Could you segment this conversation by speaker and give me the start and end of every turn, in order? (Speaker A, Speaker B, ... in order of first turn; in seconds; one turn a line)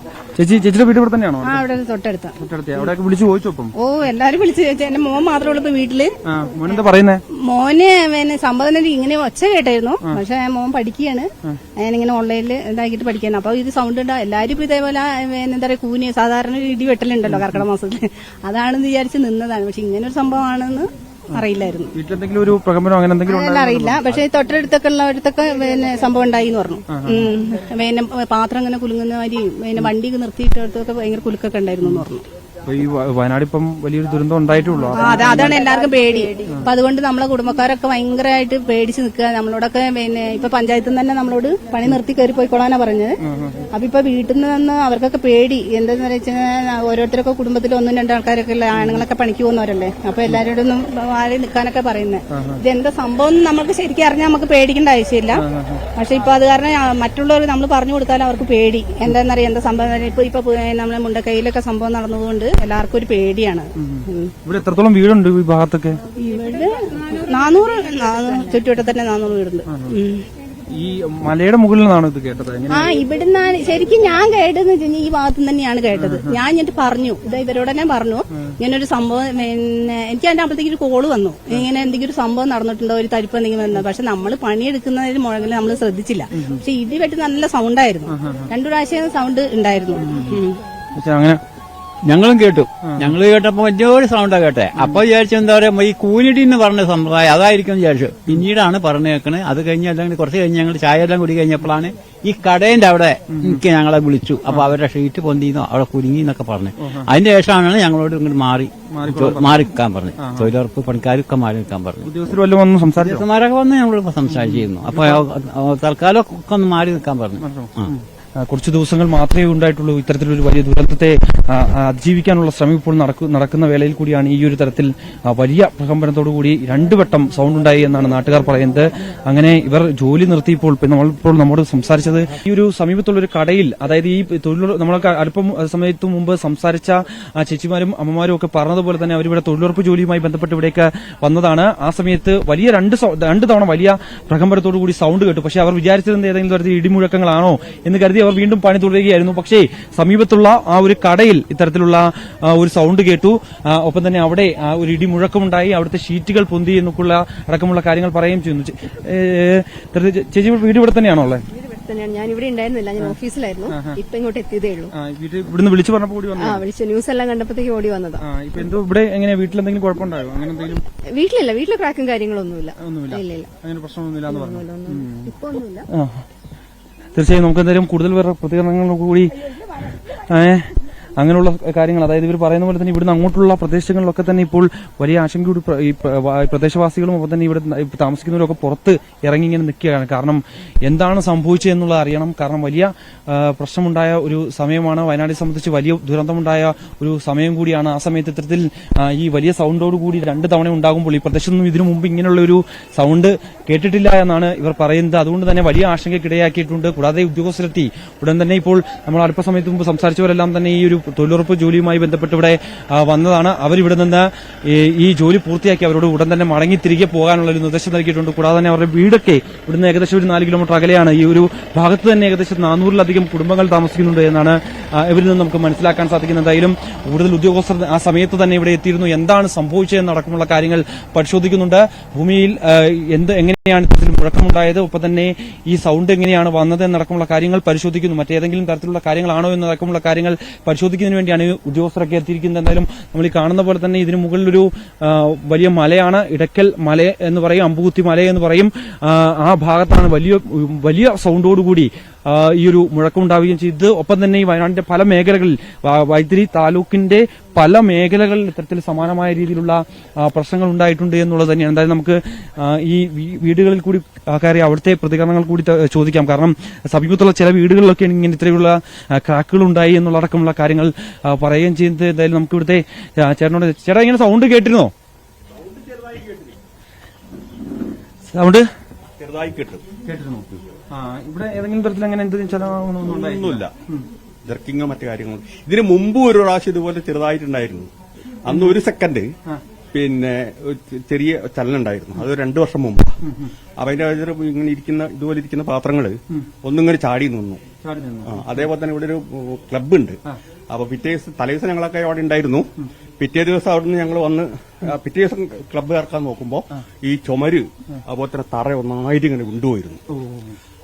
Speaker A: 0.4-1.6
Speaker B: 1.4-2.4
Speaker A: 2.4-3.7
Speaker B: 3.8-6.1
Speaker A: 6.3-7.2
Speaker B: 7.4-11.3
Speaker B: 11.8-22.0
Speaker A: 17.3-17.7
Speaker A: 21.9-24.2
Speaker B: 23.3-32.2
Speaker A: 26.9-27.3
Speaker A: 32.7-35.6
Speaker B: 34.9-43.2
Speaker A: 43.3-43.6
Speaker B: 43.7-55.4
Speaker A: 48.7-49.0
Speaker A: 52.3-52.6
Speaker A: 55.4-55.8
Speaker B: 56.0-64.3
Speaker A: 63.8-66.0
Speaker B: 66.2-70.2
Speaker A: 69.7-70.0
Speaker A: 70.7-72.9
Speaker B: 72.7-90.6
Speaker A: 76.0-76.4
Speaker A: 88.1-88.5
Speaker A: 90.0-90.4
Speaker A: 91.0-91.4
Speaker C: 92.1-112.0
Speaker A: 92.8-93.2
Speaker A: 94.8-95.0
Speaker A: 103.3-103.7
Speaker A: 104.5-104.8
Speaker A: 106.8-107.1
Speaker A: 108.9-110.6
Speaker A: 112.0-113.3
Speaker C: 113.0-117.9
Speaker A: 114.3-115.3
Speaker A: 117.4-161.4
Speaker D: 161.5-164.9
Speaker A: 163.7-164.0
Speaker A: 164.9-166.6
Speaker D: 166.4-168.2
Speaker A: 168.2-170.8
Speaker D: 171.1-173.5
Speaker A: 172.8-175.3
Speaker D: 174.3-175.9
Speaker A: 175.9-176.2
Speaker A: 177.2-179.3
Speaker A: 180.1-274.9
Speaker A: 278.3-278.6
Speaker E: 279.2-279.8
Speaker A: 280.1-284.1
Speaker E: 283.1-283.7
Speaker E: 284.4-287.9
Speaker E: 288.4-289.2
Speaker A: 288.5-288.8
Speaker E: 289.9-293.2
Speaker A: 293.2-293.5
Speaker E: 293.8-297.6
Speaker A: 297.8-298.7
Speaker E: 298.3-300.2
Speaker E: 300.7-302.7
Speaker E: 303.2-310.0
Speaker A: 310.1-310.6